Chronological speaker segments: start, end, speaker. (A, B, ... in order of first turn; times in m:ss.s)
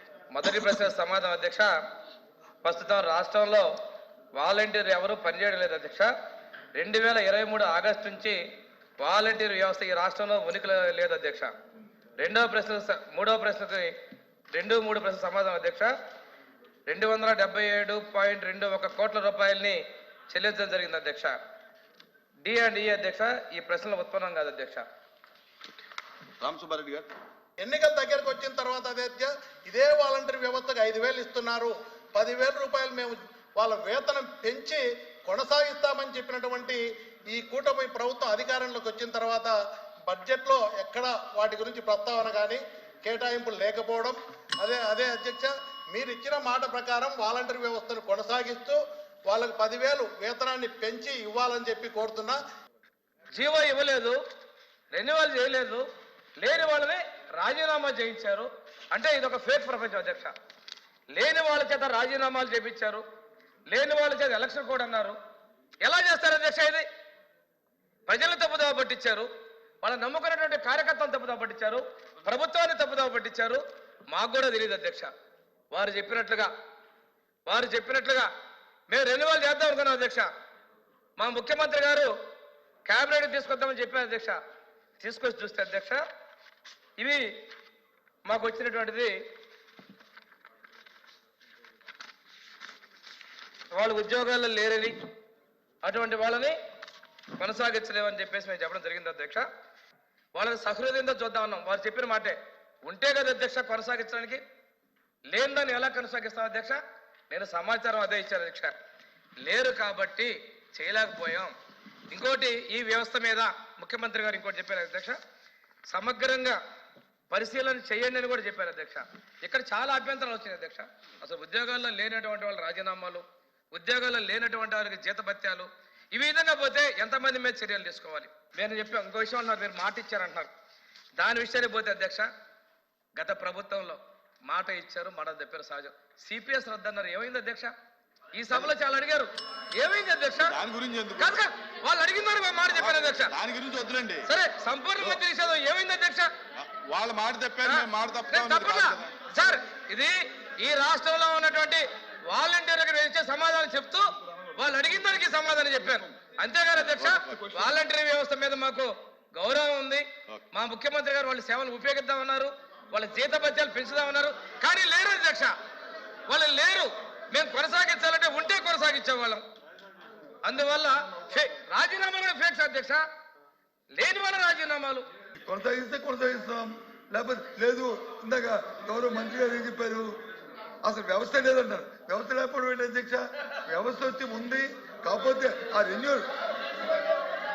0:00.3-0:01.7 A
0:02.6-0:03.7 A
0:04.4-0:06.1 A
0:06.8-0:08.4 A
0:09.0-0:11.5 A
0:12.2-0:14.0 A
0:14.5-0:15.9 A
0:16.9-0:21.4 A
0:22.4-0:24.8 A
0:26.4-0:27.1 B
0:27.6-0:39.6 C
0:40.1-0:52.4 C
0:53.4-0:54.2 A
0:54.9-0:55.8 A
0:56.4-1:00.3 A
1:01.1-1:03.0 A
1:03.7-1:05.2 A
1:05.8-1:06.9 A
1:08.1-1:09.3 A
1:09.8-1:15.1 A
1:15.7-1:16.5 A
1:17.5-1:18.3 A
1:18.9-1:20.3 A
1:21.2-1:22.1 A
1:22.9-1:24.4 A
1:25.0-1:26.0 A
1:27.0-1:27.2 A
1:28.2-1:29.2 A
1:33.7-1:35.0 A
1:35.8-1:36.6 A
1:37.4-1:39.4 A
1:40.4-1:44.4 A
1:45.3-1:46.8 A
1:47.3-1:48.7 A
1:49.4-1:51.5 A
1:52.1-1:55.2 A
1:55.9-1:56.6 A
1:57.3-2:10.5 A
2:11.2-2:12.3 A
2:13.2-2:17.7 A
2:18.4-2:20.6 A
2:20.4-2:21.4 B
2:21.2-2:23.3 A
2:22.8-2:24.3 B
2:24.2-2:26.3 A
2:26.6-2:29.2 B
2:27.6-2:45.5 A
2:36.9-2:37.7 B
2:46.3-2:49.4 A
2:50.4-2:53.0 A
2:53.9-2:55.0 A
2:55.4-3:00.2 D
3:00.8-3:06.3 D